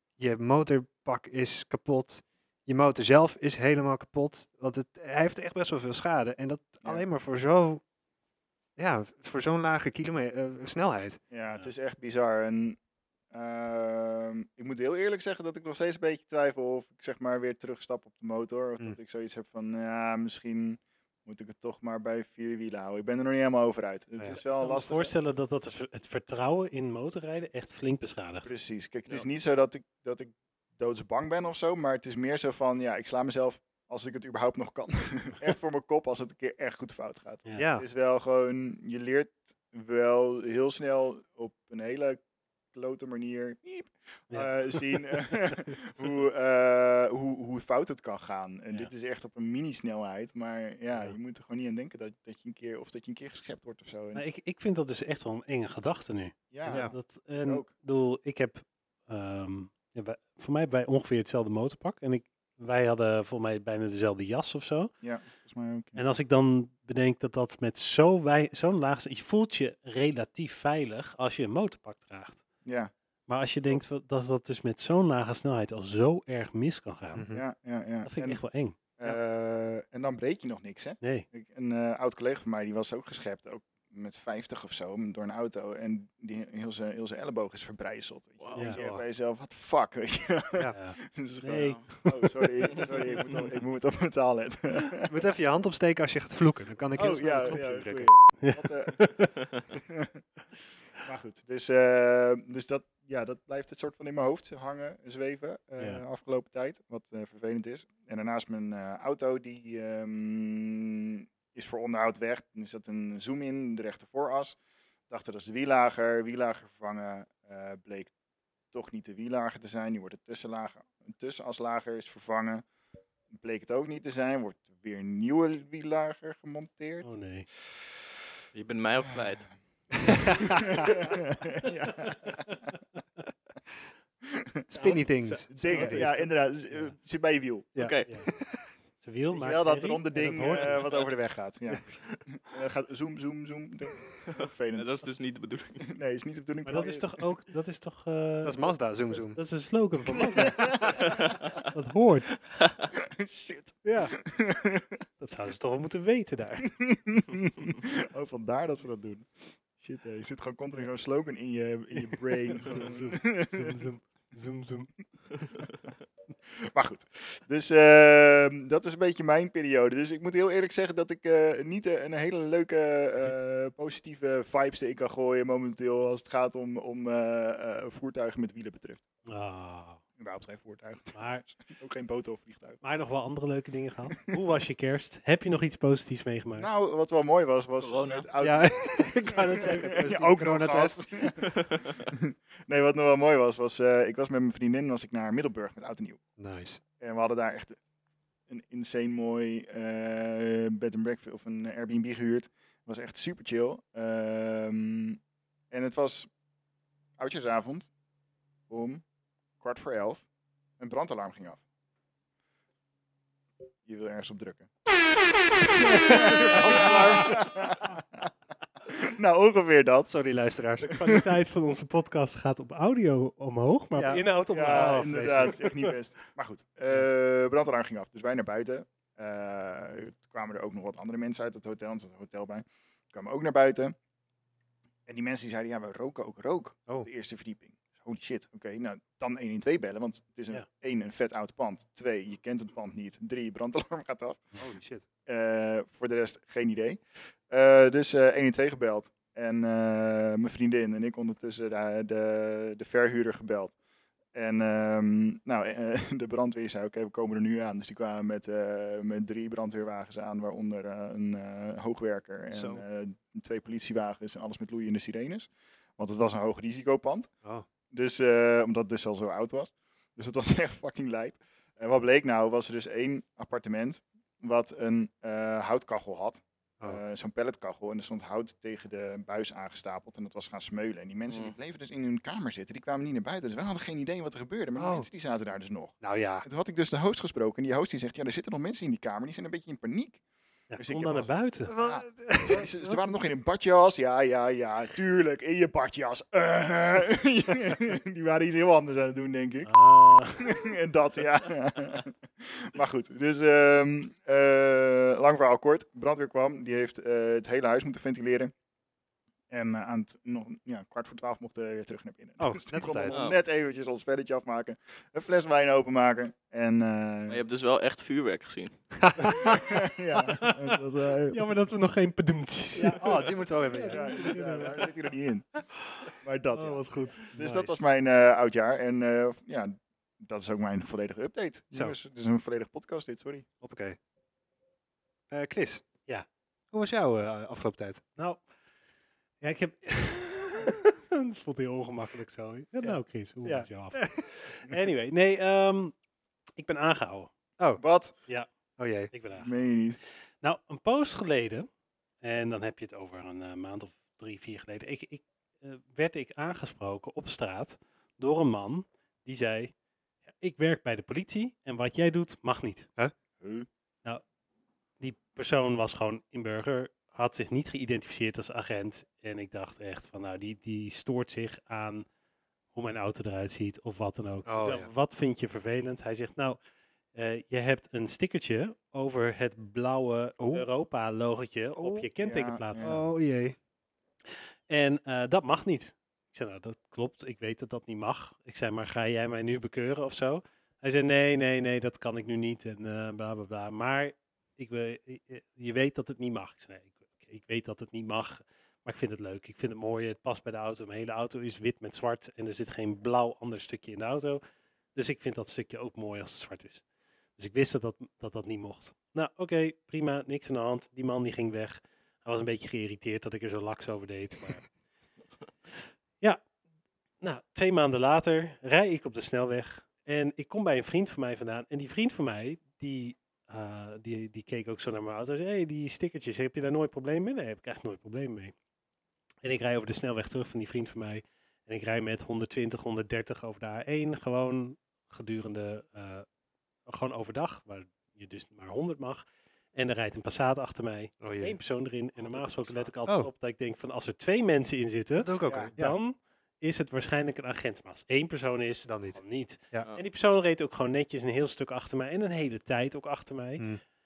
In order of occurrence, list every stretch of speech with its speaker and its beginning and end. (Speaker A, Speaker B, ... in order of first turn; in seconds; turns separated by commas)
Speaker A: 0.2-7.8, Speaker A: 8.8-11.2, Speaker B: 11.3-12.8, Speaker B: 13.3-25.1, Speaker C: 24.6-28.5, Speaker B: 28.4-42.2, Speaker A: 37.6-37.9, Speaker B: 42.7-54.2, Speaker C: 54.1-64.9, Speaker B: 56.5-57.7, Speaker A: 56.7-57.0, Speaker B: 65.0-66.0, Speaker C: 66.0-72.4, Speaker B: 72.7-72.9, Speaker C: 73.3-77.2, Speaker A: 77.1-77.4, Speaker B: 77.3-78.4, Speaker C: 78.1-79.2, Speaker B: 79.0-95.1, Speaker C: 81.0-81.3, Speaker D: 88.4-88.7, Speaker A: 88.7-89.0, Speaker C: 90.7-93.5, Speaker D: 91.5-91.9, Speaker A: 95.1-98.2, Speaker B: 97.0-99.2, Speaker C: 98.4-99.3, Speaker B: 99.8-100.2, Speaker B: 101.0-114.6, Speaker B: 115.1-118.1, Speaker B: 118.7-122.6, Speaker B: 123.4-127.1, Speaker C: 127.0-127.5, Speaker D: 128.5-129.5, Speaker A: 130.1-130.9, Speaker B: 130.3-132.6, Speaker A: 134.7-136.2, Speaker C: 134.8-136.9, Speaker B: 135.5-137.7, Speaker A: 137.8-138.6, Speaker D: 137.8-138.1, Speaker C: 139.0-140.9, Speaker B: 139.3-144.9, Speaker D: 140.6-141.1, Speaker D: 144.3-145.9, Speaker B: 145.8-147.2, Speaker C: 146.7-152.4, Speaker A: 148.4-149.4, Speaker B: 150.2-151.0, Speaker D: 151.0-151.6, Speaker D: 152.5-152.9, Speaker B: 153.0-155.0, Speaker C: 153.8-154.2, Speaker C: 155.2-156.8, Speaker B: 156.8-163.8, Speaker C: 162.6-165.0, Speaker B: 166.7-179.0, Speaker C: 179.3-180.0, Speaker B: 180.2-182.8, Speaker C: 181.2-181.4, Speaker C: 182.8-186.7, Speaker B: 186.6-196.2, Speaker D: 187.8-188.3, Speaker A: 188.4-191.0, Speaker D: 191.5-192.0, Speaker A: 196.4-196.8, Speaker B: 197.0-197.8, Speaker B: 198.5-205.2, Speaker B: 205.7-206.3, Speaker B: 207.2-207.9, Speaker B: 208.7-209.0, Speaker B: 209.6-210.2, Speaker B: 210.8-211.6, Speaker B: 213.9-214.7, Speaker B: 215.7-218.3, Speaker A: 215.9-217.4, Speaker B: 218.9-220.1, Speaker A: 220.1-220.9, Speaker C: 220.8-225.9, Speaker B: 220.9-221.2, Speaker A: 224.0-225.6, Speaker B: 224.5-233.9, Speaker B: 235.1-244.5, Speaker A: 244.6-245.1, Speaker B: 245.3-253.8, Speaker B: 254.3-267.3, Speaker A: 262.5-262.8, Speaker B: 267.9-290.2, Speaker D: 281.3-281.6, Speaker A: 284.8-285.1, Speaker A: 286.0-286.5, Speaker C: 290.7-291.7, Speaker B: 290.8-299.7, Speaker A: 291.6-293.1, Speaker C: 299.7-300.5, Speaker B: 300.4-308.5, Speaker B: 309.5-317.4, Speaker A: 312.4-313.2, Speaker D: 313.1-313.4, Speaker D: 317.3-318.8, Speaker A: 319.0-319.6, Speaker B: 319.4-321.4, Speaker C: 320.2-320.5, Speaker C: 321.3-324.9, Speaker A: 322.8-324.4, Speaker B: 323.9-325.6, Speaker B: 326.2-333.4, Speaker C: 326.5-327.4, Speaker A: 327.4-327.8, Speaker A: 333.6-334.0, Speaker A: 335.3-335.9, Speaker A: 336.7-338.0, Speaker C: 338.2-338.4, Speaker C: 339.4-345.9, Speaker A: 343.4-344.2, Speaker C: 346.6-347.3, Speaker B: 347.8-348.1, Speaker A: 348.8-349.1, Speaker C: 349.1-349.5, Speaker B: 349.4-350.0, Speaker C: 350.4-351.7, Speaker C: 352.2-359.7, Speaker C: 360.4-362.9, Speaker B: 363.4-363.7, Speaker C: 365.0-372.1, Speaker C: 372.7-376.6, Speaker A: 374.5-374.9, Speaker C: 377.1-383.0, Speaker A: 380.4-380.7, Speaker A: 381.8-382.1, Speaker B: 382.2-383.0, Speaker A: 382.8-383.6, Speaker C: 384.7-404.4, Speaker C: 404.9-406.8, Speaker C: 407.4-414.6, Speaker C: 417.2-428.5, Speaker C: 429.4-436.3, Speaker C: 436.9-453.6, Speaker A: 441.2-441.6, Speaker B: 442.2-442.9, Speaker A: 445.2-446.0, Speaker B: 445.5-445.7, Speaker A: 448.9-449.9